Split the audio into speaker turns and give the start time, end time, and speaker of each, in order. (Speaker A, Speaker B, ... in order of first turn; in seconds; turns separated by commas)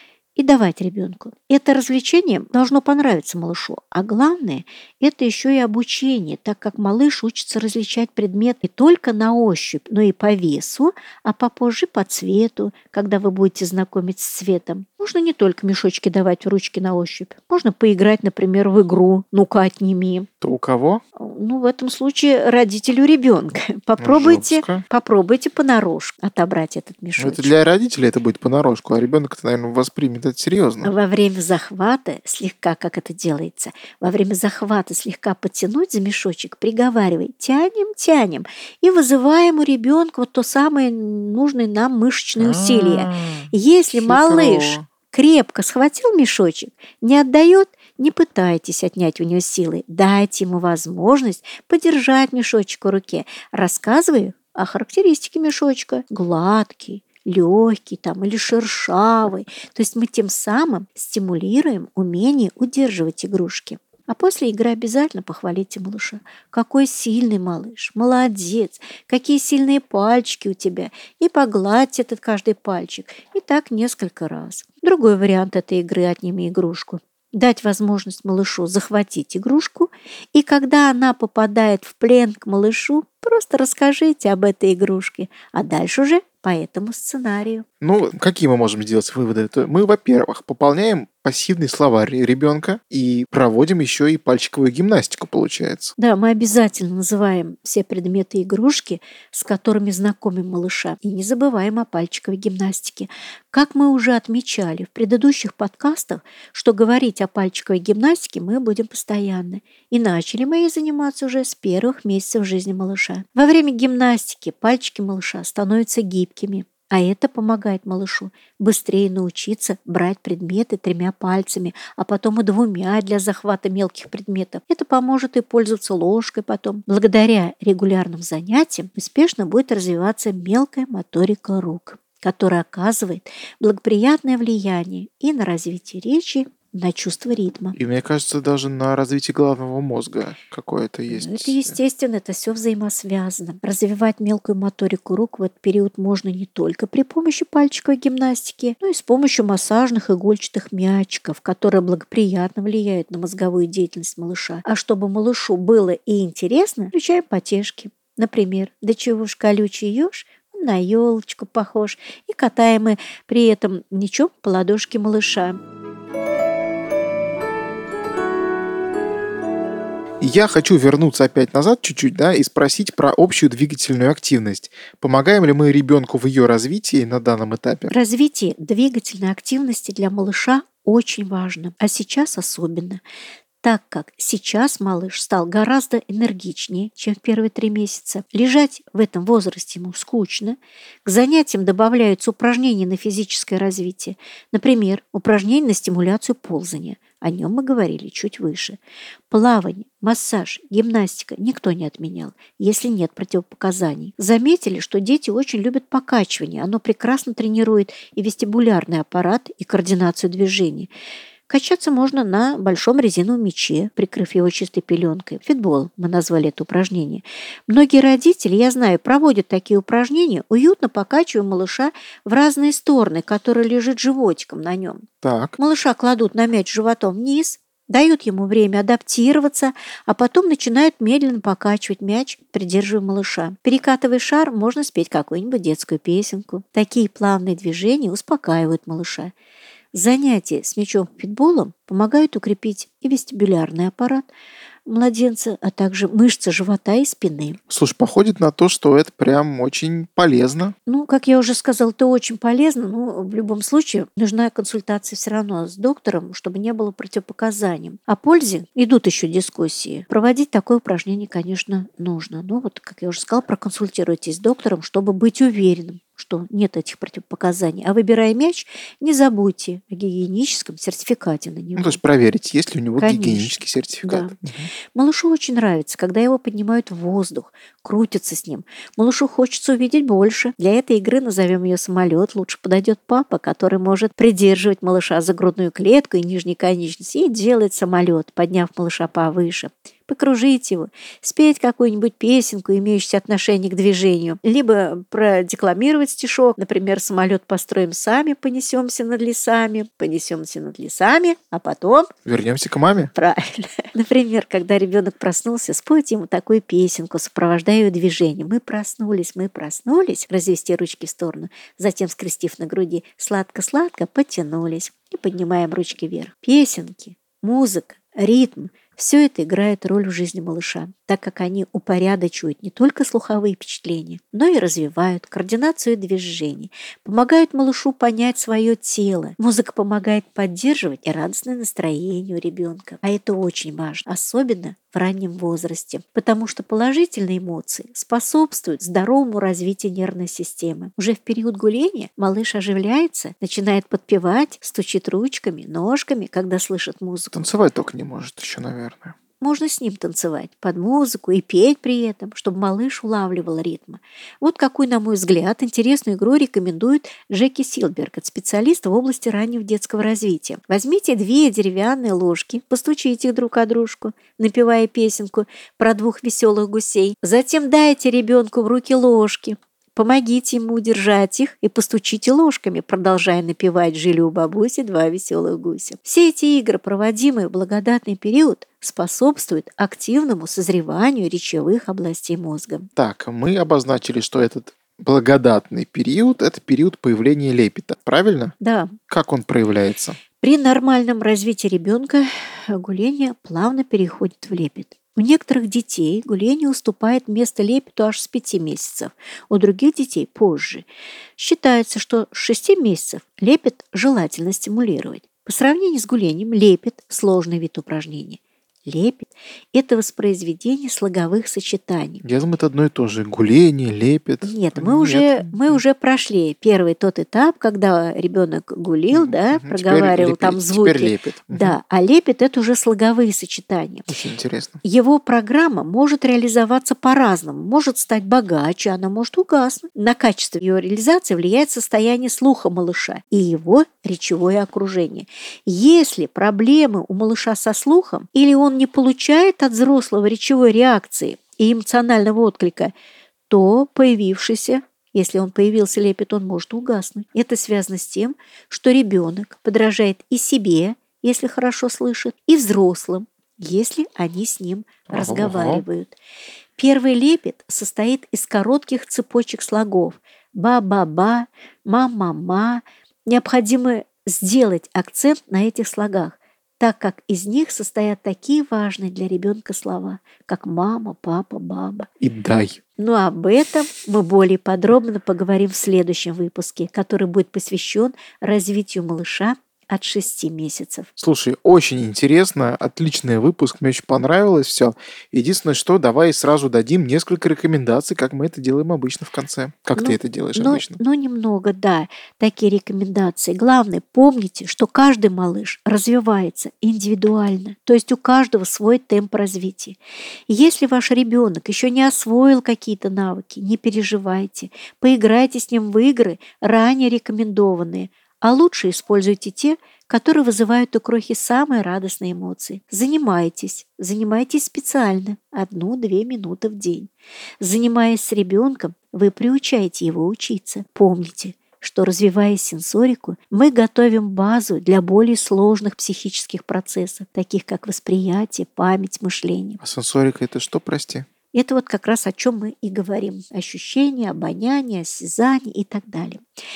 Speaker A: 0.4-20.3, Speaker B: 20.4-21.0, Speaker A: 21.2-27.5, Speaker B: 24.0-24.8, Speaker B: 27.2-30.9, Speaker A: 30.8-87.7, Speaker B: 42.4-44.9, Speaker B: 87.8-96.0, Speaker A: 96.0-137.8, Speaker B: 137.8-141.8, Speaker A: 141.1-165.6, Speaker B: 170.2-177.9, Speaker A: 177.9-183.0, Speaker A: 183.6-198.8, Speaker A: 199.3-210.9, Speaker A: 211.5-239.3, Speaker B: 225.2-225.6, Speaker A: 239.9-244.3, Speaker A: 244.9-247.6, Speaker B: 247.7-250.8, Speaker A: 250.9-272.0, Speaker B: 271.8-274.7, Speaker A: 273.0-274.4, Speaker A: 274.9-302.1, Speaker B: 302.3-303.1, Speaker A: 303.1-347.5, Speaker B: 347.3-349.1, Speaker A: 349.4-382.9, Speaker B: 383.0-388.6, Speaker A: 388.6-389.0, Speaker B: 389.1-390.2, Speaker A: 390.4-400.9, Speaker A: 401.4-412.2, Speaker B: 412.2-415.8, Speaker A: 414.4-424.1, Speaker B: 419.1-421.8, Speaker B: 424.1-424.8, Speaker A: 424.8-442.9, Speaker A: 443.5-456.2, Speaker B: 455.1-455.8, Speaker A: 456.8-472.1, Speaker B: 472.2-472.8, Speaker A: 473.0-481.1, Speaker B: 481.2-491.0, Speaker A: 490.0-517.1, Speaker A: 517.6-529.8, Speaker B: 529.8-531.3, Speaker A: 531.5-536.4